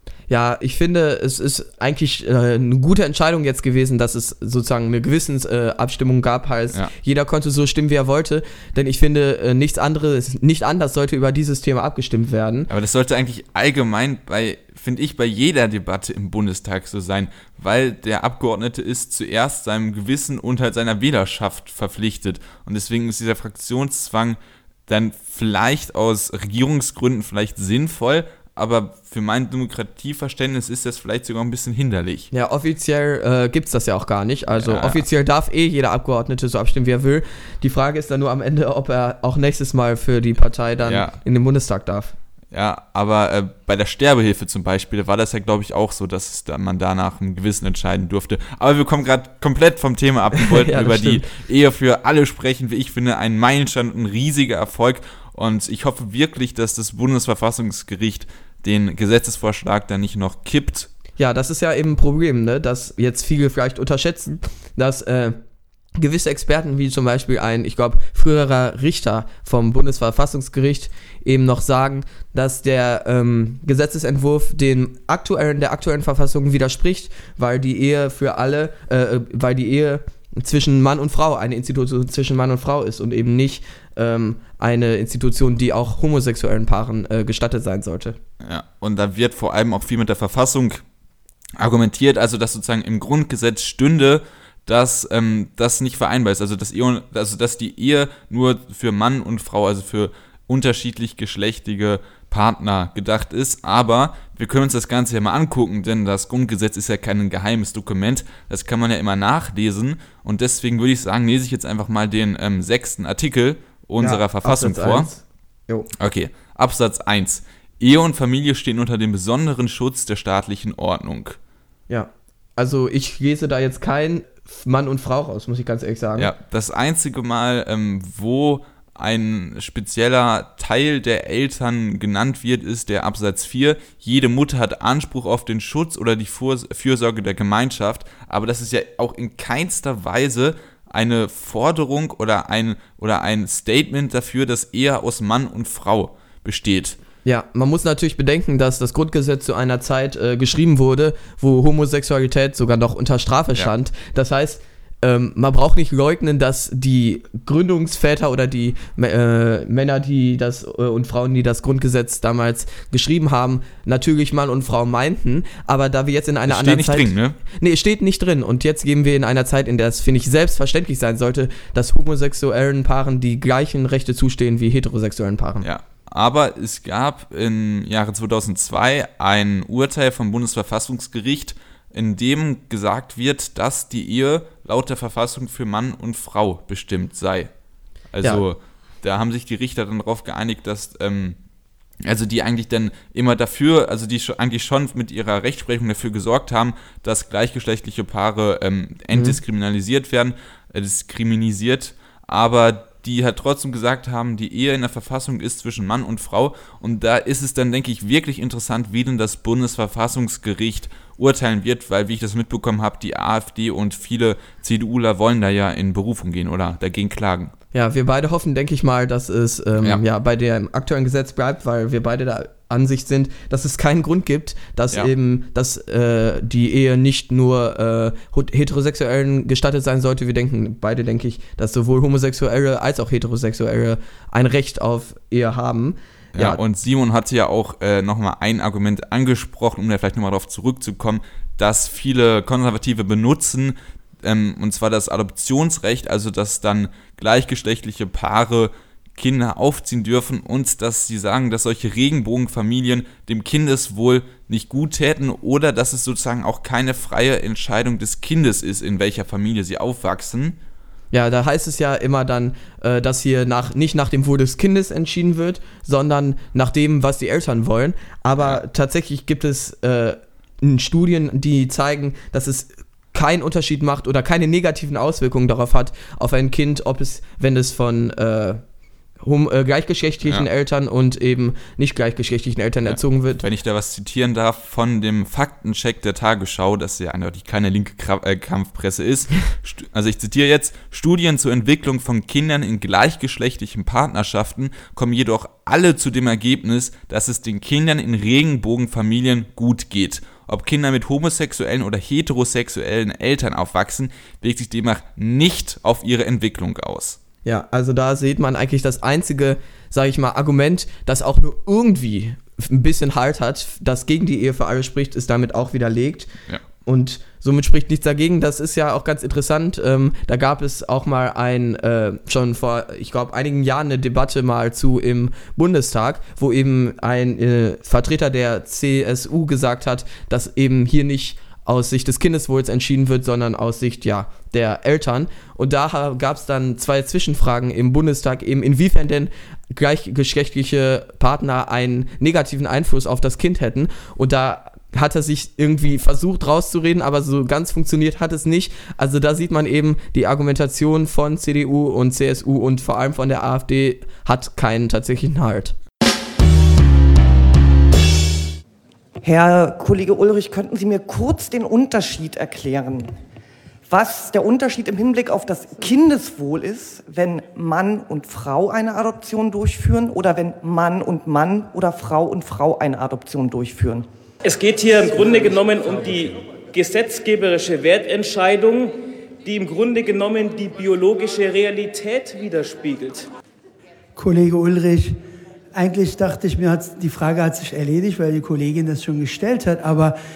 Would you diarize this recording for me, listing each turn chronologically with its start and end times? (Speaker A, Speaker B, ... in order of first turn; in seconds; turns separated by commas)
Speaker A: 0.3-12.7, Speaker B: 12.7-32.3, Speaker A: 32.3-42.1, Speaker B: 34.5-35.0, Speaker B: 40.8-41.1, Speaker B: 42.5-60.9, Speaker A: 50.3-51.3, Speaker A: 61.2-65.4, Speaker A: 66.0-88.2, Speaker B: 88.4-90.8, Speaker B: 91.6-115.1, Speaker A: 114.0-115.9, Speaker B: 115.9-121.4, Speaker A: 121.9-126.3, Speaker B: 126.2-147.0, Speaker A: 147.2-175.7, Speaker B: 166.5-167.4, Speaker B: 175.6-187.5, Speaker B: 188.1-191.4, Speaker B: 192.0-217.5, Speaker A: 199.1-199.4, Speaker A: 217.7-236.6, Speaker B: 236.3-260.6, Speaker A: 261.1-278.6, Speaker A: 279.2-283.4, Speaker B: 282.8-307.2, Speaker A: 307.4-316.3, Speaker A: 316.8-355.8, Speaker C: 359.2-363.1, Speaker C: 363.9-374.1, Speaker D: 374.4-383.3, Speaker E: 384.1-385.2, Speaker E: 385.7-390.1